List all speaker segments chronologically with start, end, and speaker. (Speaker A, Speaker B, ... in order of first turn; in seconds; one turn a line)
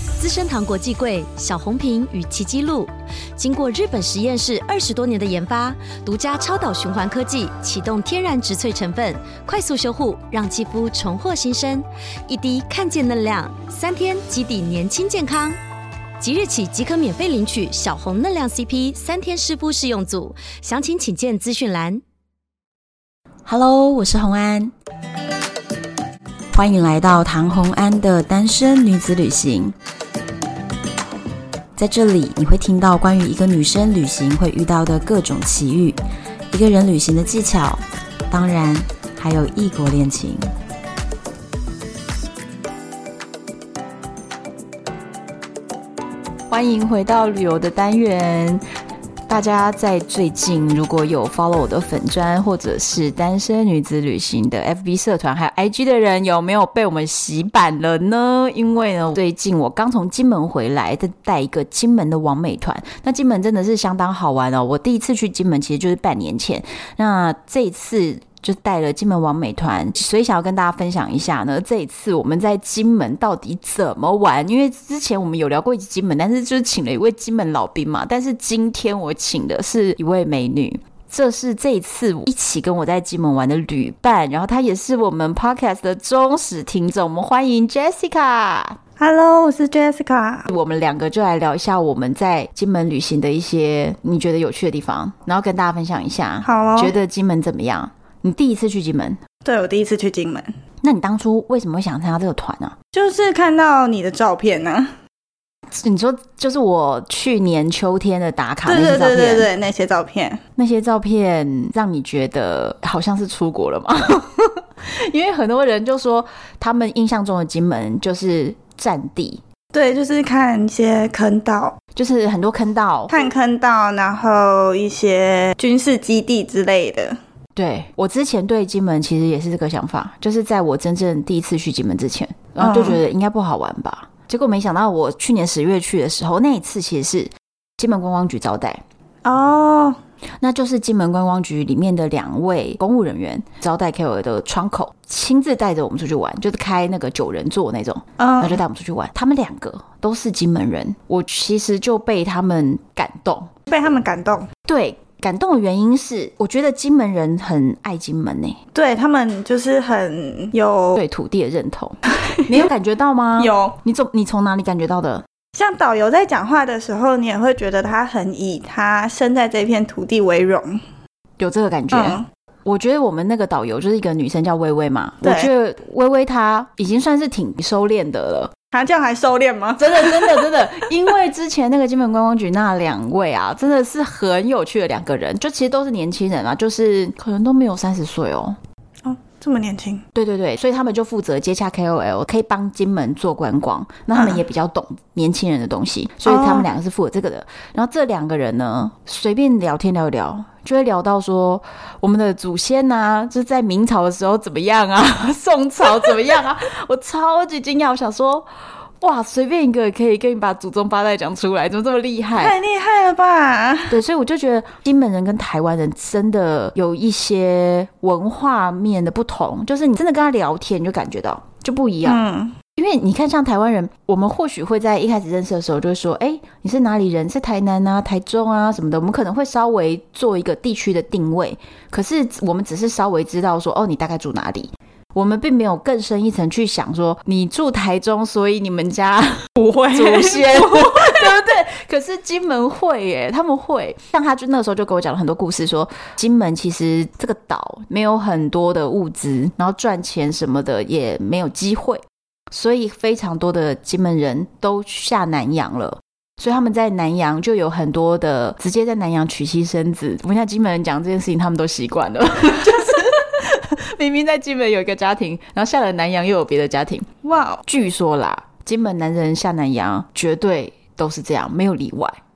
Speaker A: 0.2-15.6
Speaker A: 16.2-22.0
Speaker B: 23.4-24.7
Speaker B: 26.5-29.7
Speaker B: 31.8-36.0
Speaker B: 36.5-40.5
Speaker B: 46.5-48.6
Speaker B: 49.3-88.8
Speaker C: 89.0-90.5
Speaker B: 90.5-99.2
Speaker C: 96.4-96.9
Speaker C: 99.4-100.5
Speaker B: 100.8-102.7
Speaker C: 102.9-104.9
Speaker B: 105.7-109.5
Speaker C: 108.6-110.4
Speaker B: 110.6-119.4
Speaker C: 119.7-121.8
Speaker B: 121.9-123.1
Speaker C: 123.1-127.2
Speaker B: 127.5-138.8
Speaker C: 132.6-133.0
Speaker C: 139.2-140.0
Speaker B: 140.4-153.5
Speaker C: 148.2-148.6
Speaker C: 153.7-154.5
Speaker B: 154.7-158.6
Speaker C: 158.7-161.0
Speaker B: 160.9-165.2
Speaker C: 162.3-162.7
Speaker C: 163.4-163.8
Speaker C: 165.5-170.8
Speaker B: 171.4-178.5
Speaker C: 171.9-172.2
Speaker C: 175.2-175.5
Speaker C: 178.7-180.5
Speaker B: 179.8-188.6
Speaker C: 189.0-190.0
Speaker B: 190.1-208.4
Speaker C: 194.1-194.4
Speaker C: 196.2-196.7
Speaker B: 209.0-212.5
Speaker C: 212.3-214.0
Speaker B: 213.9-222.2
Speaker C: 222.0-222.6
Speaker B: 222.7-267.1
Speaker C: 239.6-241.4
Speaker C: 267.2-267.6
Speaker B: 267.6-272.2